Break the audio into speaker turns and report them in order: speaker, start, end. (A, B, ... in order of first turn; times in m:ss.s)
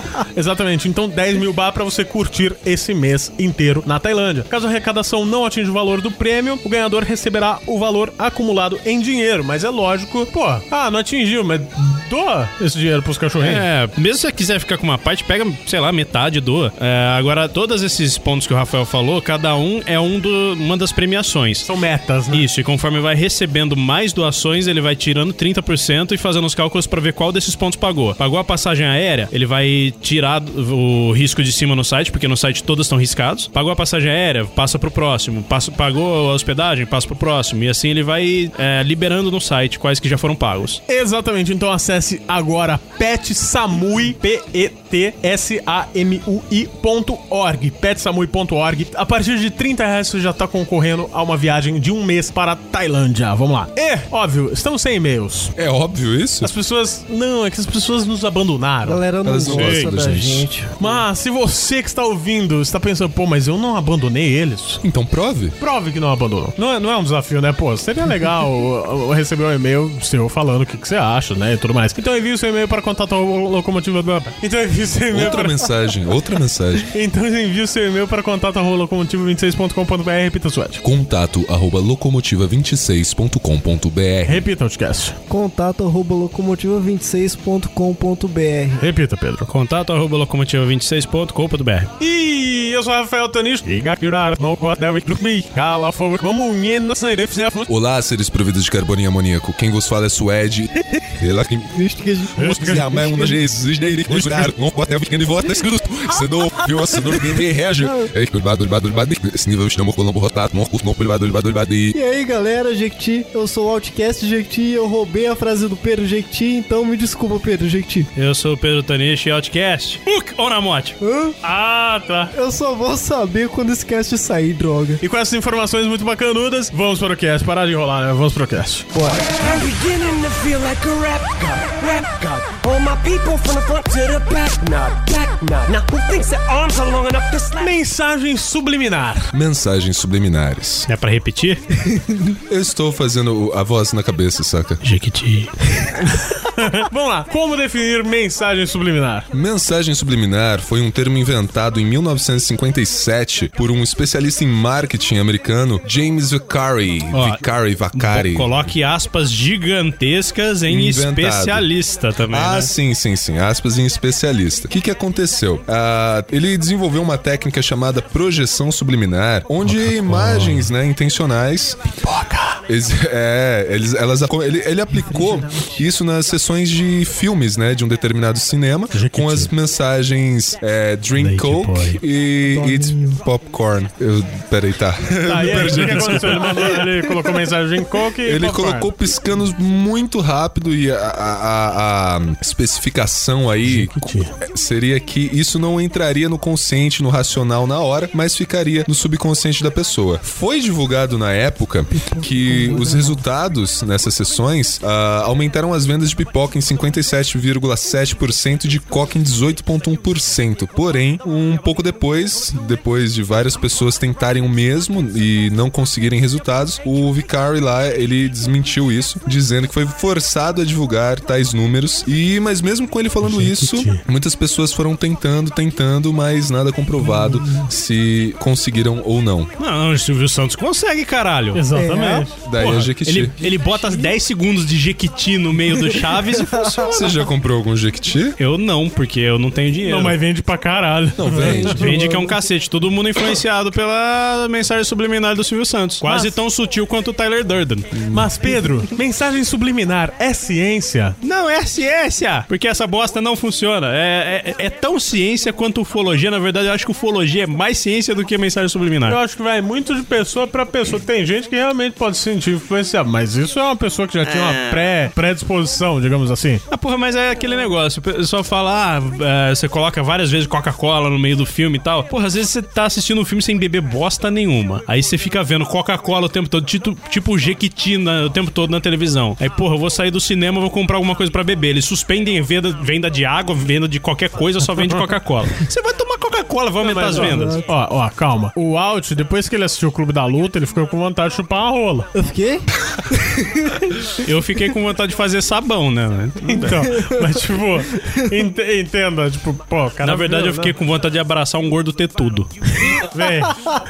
0:00.3-0:13.6 A
0:13.4-0:21.7 B
0:21.6-0:22.5 A
0:22.3-0:40.8 B
0:40.9-0:55.5 A
0:55.6-0:56.5 C
0:56.4-0:59.0 A
0:58.8-1:00.7 D
0:59.2-1:00.5 C
0:59.5-0:59.9 B
1:00.8-1:04.8 A
1:04.8-1:05.6 C
1:05.6-1:15.6 A
1:15.1-1:16.9 C
1:16.9-1:20.8 A
1:20.8-1:24.4 C
1:24.2-1:25.2 A
1:25.3-1:28.8 D
1:28.8-1:29.5 A
1:29.4-1:31.9 B
1:32.0-1:37.7 A
1:37.7-1:52.0 C
1:41.7-1:43.4 D
1:42.4-1:42.8 A
1:47.8-1:48.1 D
1:51.9-1:58.1 D
1:58.2-2:01.0 B
2:01.0-2:01.4 D
2:01.4-2:02.3 A
2:02.3-2:05.0 D
2:05.0-2:08.9 A
2:09.0-2:09.2 D
2:09.1-2:17.8 E
2:17.6-2:19.3 A
2:19.3-2:20.9 C
2:20.9-2:21.6 B
2:22.5-2:24.8 C
2:24.8-2:25.5 B
2:26.0-2:29.3 A
2:29.3-2:38.6 C
2:37.1-2:42.7 B
2:40.7-2:41.7 C
2:42.3-2:51.8 C
2:49.7-2:50.6 B
2:52.0-2:52.6 A
2:52.7-3:07.2 C
2:54.9-2:55.7 D
2:58.9-2:59.5 A
3:01.2-3:02.0 B
3:02.4-3:03.2 D
3:05.2-3:08.9 A
3:08.2-3:49.5 C
3:13.6-3:14.3 A
3:21.9-3:23.2 D
3:43.2-3:44.0 A
3:47.0-3:47.7 D
3:49.6-3:51.6 B
3:51.5-3:52.9 A
3:51.7-3:52.3 D
3:52.4-3:53.3 C
3:52.6-3:57.0 B
3:53.8-3:54.1 D
3:56.8-3:58.4 C
3:58.4-4:00.2 B
3:59.8-4:01.9 A
4:01.1-4:02.1 C
4:01.7-4:08.0 B
4:01.9-4:02.4 D
4:06.0-4:06.4 A
4:07.9-4:08.3 C
4:08.1-4:11.2 A
4:11.2-4:19.2 B
4:19.1-4:26.6 A
4:24.2-4:24.9 B
4:26.7-4:47.6 B
4:46.8-4:52.1 A
4:47.1-4:47.6 D
4:52.1-4:53.8 D
4:54.2-4:56.8 B
4:56.4-5:00.8 A
4:57.0-4:57.5 D
5:00.0-5:02.5 B
5:02.8-5:03.6 A